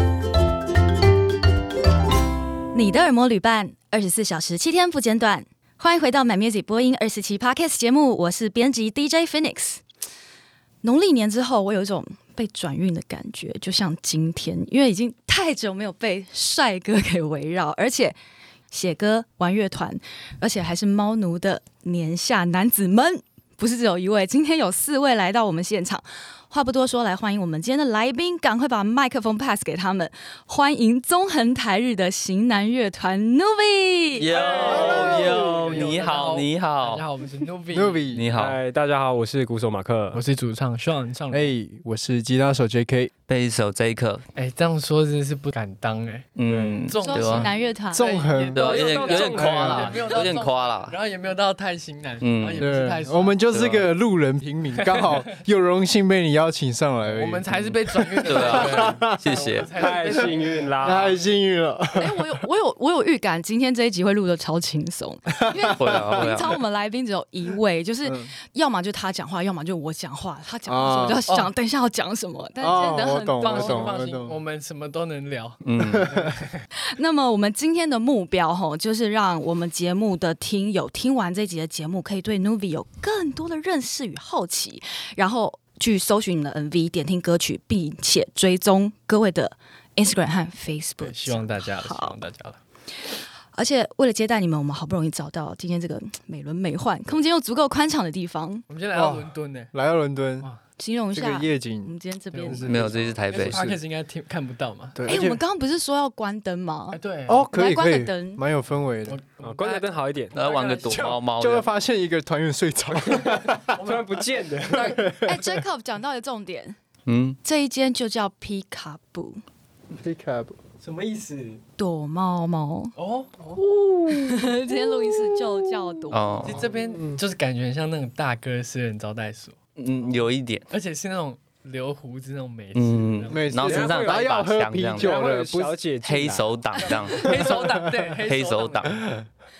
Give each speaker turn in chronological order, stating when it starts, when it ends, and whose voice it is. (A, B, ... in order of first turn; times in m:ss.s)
0:02.7-0:09.8 A
0:10.8-0:18.2 A
0:18.7-0:34.3 A
0:34.2-0:37.0 B
0:34.3-0:36.0 C
0:34.6-0:35.6 D
0:34.6-0:38.3 E
0:37.7-0:38.2 D
0:38.1-0:38.6 B
0:38.3-0:40.2 C
0:40.1-0:41.5 E
0:41.3-0:43.1 D
0:43.3-0:44.2 B
0:44.4-0:53.4 E
0:46.4-0:47.5 B
0:46.4-0:46.8 C
0:47.0-0:48.2 A
0:47.9-0:48.7 D
0:48.5-0:51.0 B
0:48.6-0:50.3 C
0:52.2-0:52.7 B
0:52.6-0:59.3 D
0:53.5-0:53.9 B
0:54.8-0:55.2 E
0:57.1-1:01.0 E
0:58.2-0:59.7 B
0:59.7-1:01.2 C
1:00.8-1:02.3 D
1:02.0-1:13.9 A
1:05.4-1:06.4 D
1:05.8-1:06.5 B
1:08.0-1:08.3 D
1:10.6-1:11.2 D
1:12.6-1:14.4 D
1:13.4-1:16.6 E
1:15.6-1:16.1 B
1:15.8-1:16.3 D
1:16.8-1:32.2 A
1:31.0-1:32.6 E
1:33.5-1:38.6 A
1:38.7-1:39.7 E
1:38.9-1:40.5 D
1:40.8-1:42.8 A
1:41.1-1:43.8 D
1:42.3-1:42.6 E
1:42.6-1:43.6 B
1:43.3-1:45.0 E
1:44.9-1:45.4 D
1:45.0-1:48.4 A
1:46.9-1:47.4 E
1:47.3-1:49.2 D
1:49.1-1:51.2 E
1:49.4-1:50.3 C
1:50.3-1:51.6 B
1:51.4-1:53.8 D
1:53.0-1:55.0 C
1:53.7-1:54.0 E
1:54.7-1:55.6 D
1:55.2-1:56.7 A
1:57.0-1:57.4 B
1:57.4-1:59.4 A
1:59.9-2:00.6 D
2:00.9-2:01.4 E
2:01.1-2:01.6 C
2:01.8-2:03.0 A
2:03.0-2:03.6 E
2:03.7-2:04.5 D
2:04.1-2:06.5 A
2:06.1-2:06.7 B
2:06.4-2:09.6 E
2:06.9-2:07.2 D
2:09.8-2:10.6 B
2:10.7-2:13.5 E
2:12.7-2:15.2 B
2:13.3-2:15.8 D
2:13.6-2:14.4 C
2:14.9-2:16.6 C
2:16.0-2:17.5 B
2:16.8-2:19.2 E
2:18.2-2:19.0 B